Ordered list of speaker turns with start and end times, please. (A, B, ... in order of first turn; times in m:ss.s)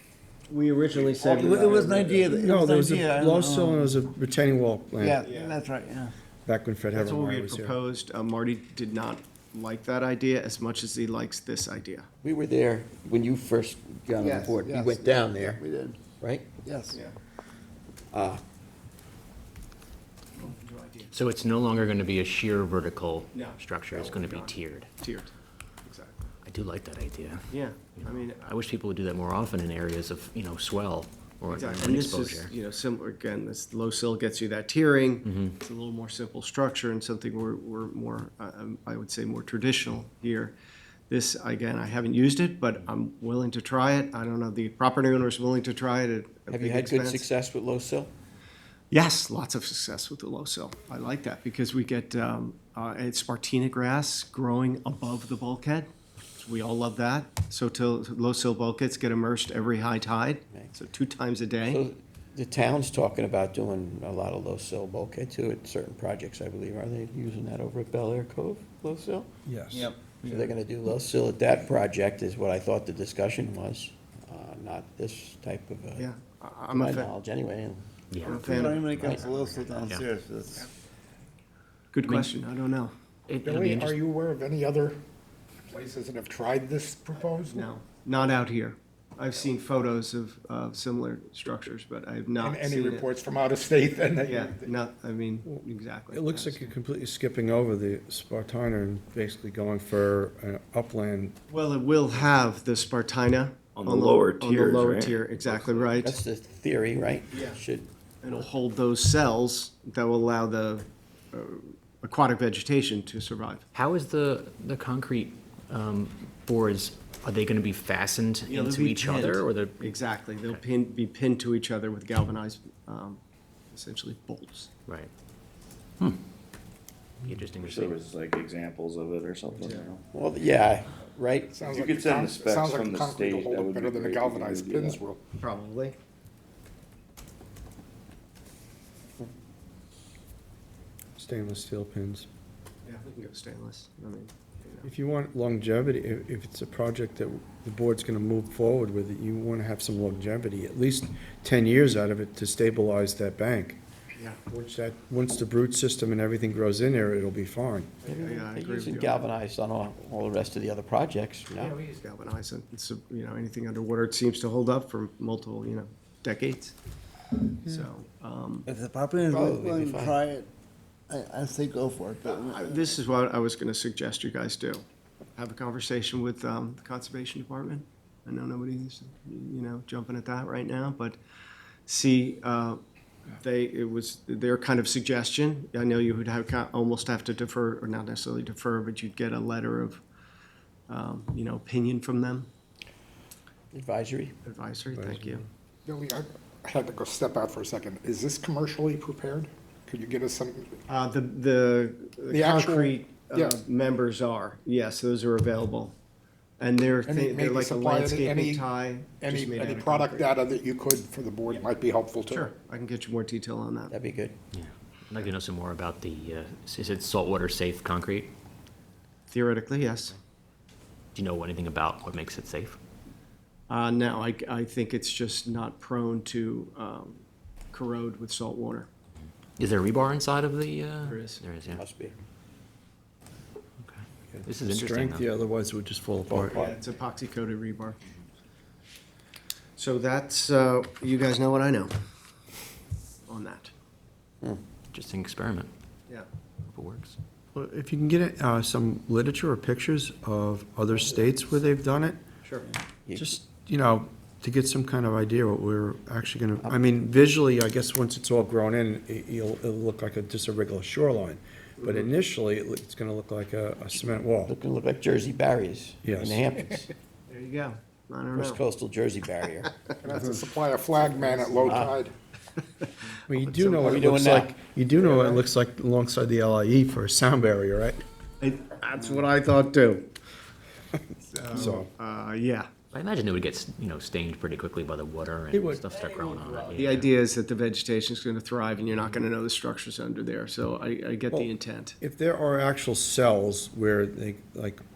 0:00.5-0:02.3 A
0:01.2-0:04.0 B
0:02.3-0:05.3 C
0:05.0-0:06.1 B
0:05.2-0:05.6 A
0:06.4-0:07.8 C
0:06.9-0:12.1 A
0:12.2-0:15.6 D
0:14.2-0:14.6 A
0:14.7-0:15.0 E
0:15.6-0:16.0 B
0:16.2-0:16.5 D
0:16.6-0:17.0 B
0:18.1-0:18.4 D
0:20.4-0:21.1 A
0:21.1-0:24.9 F
0:23.3-0:25.3 A
0:25.8-0:26.2 A
0:26.4-0:27.4 F
0:27.5-0:28.5 A
0:28.0-0:32.5 F
0:31.5-0:40.6 A
0:35.2-0:35.6 F
0:41.1-0:47.3 A
0:46.5-0:48.1 D
0:48.9-1:01.9 A
1:01.7-1:09.3 D
1:09.5-1:09.9 C
1:09.7-1:10.4 B
1:10.2-1:16.1 D
1:16.0-1:17.1 A
1:16.7-1:17.8 D
1:18.1-1:20.1 F
1:18.2-1:19.6 A
1:18.3-1:20.6 B
1:21.9-1:22.9 A
1:22.0-1:22.3 F
1:23.3-1:24.0 F
1:23.4-1:25.0 E
1:25.7-1:27.7 E
1:27.4-1:33.1 A
1:32.4-1:34.7 E
1:34.2-1:36.7 A
1:35.5-1:41.4 C
1:41.5-1:46.2 A
1:43.8-1:46.0 G
1:46.0-1:47.9 D
1:47.3-1:47.6 A
1:48.2-1:53.6 A
1:53.7-2:00.6 F
1:58.5-2:03.2 A
2:03.7-2:04.7 A
2:07.2-2:08.0 F
2:07.6-2:10.0 G
2:09.6-2:09.9 A
2:10.1-2:11.6 D
2:11.5-2:15.2 E
2:11.6-2:15.0 G
2:15.4-2:16.0 A
2:21.2-2:22.3 C
2:22.9-2:24.9 A
2:24.8-2:33.8 C
2:34.5-2:37.9 C
2:38.0-2:41.8 D
2:38.1-2:39.3 A
2:41.6-2:46.8 A
2:47.5-2:48.7 A
2:48.7-2:50.5 B
2:49.3-2:50.2 D
2:51.1-2:52.8 B
2:52.2-2:54.8 A
2:55.4-3:01.2 A
3:01.9-3:02.8 A
3:03.4-3:10.0 A
3:10.9-3:12.5 A
3:13.7-3:14.4 D
3:14.4-3:15.4 A
3:14.9-3:15.5 C
3:15.9-3:20.8 E
3:20.9-3:26.0 A
3:22.3-3:23.6 E
3:26.6-3:30.3 A
3:27.0-3:28.7 E
3:29.2-3:32.5 E
3:32.3-3:33.9 A
3:33.9-3:34.4 D
3:34.5-3:38.3 F
3:39.3-3:40.2 A
3:41.1-3:42.8 F
3:43.7-3:48.9 A
3:49.2-3:51.8 F
3:51.0-3:51.4 A
3:51.7-3:52.2 D
3:53.8-3:55.3 F
3:54.3-3:56.8 C
3:56.3-3:56.6 D
3:56.5-3:58.0 A
3:59.8-4:01.9 A
4:03.3-4:03.7 A
4:04.9-4:05.7 F
4:06.7-4:07.2 F
4:07.5-4:12.2 C
4:13.1-4:13.4 D
4:13.2-4:24.5 C
4:21.8-4:22.1 A
4:24.4-4:26.9 D
4:26.0-4:26.4 C
4:27.3-4:28.6 A
4:28.3-4:29.8 D
4:30.0-4:32.1 E
4:30.1-4:30.4 A
4:31.0-4:31.9 A
4:31.6-4:31.9 D
4:33.3-4:38.0 C
4:33.5-4:33.9 A
4:33.6-4:35.4 D
4:38.4-4:40.1 A
4:41.3-4:42.7 A
4:41.5-4:41.9 C
4:42.9-4:47.1 F
4:45.5-4:45.9 C
4:46.8-4:52.0 A
4:51.3-4:54.8 C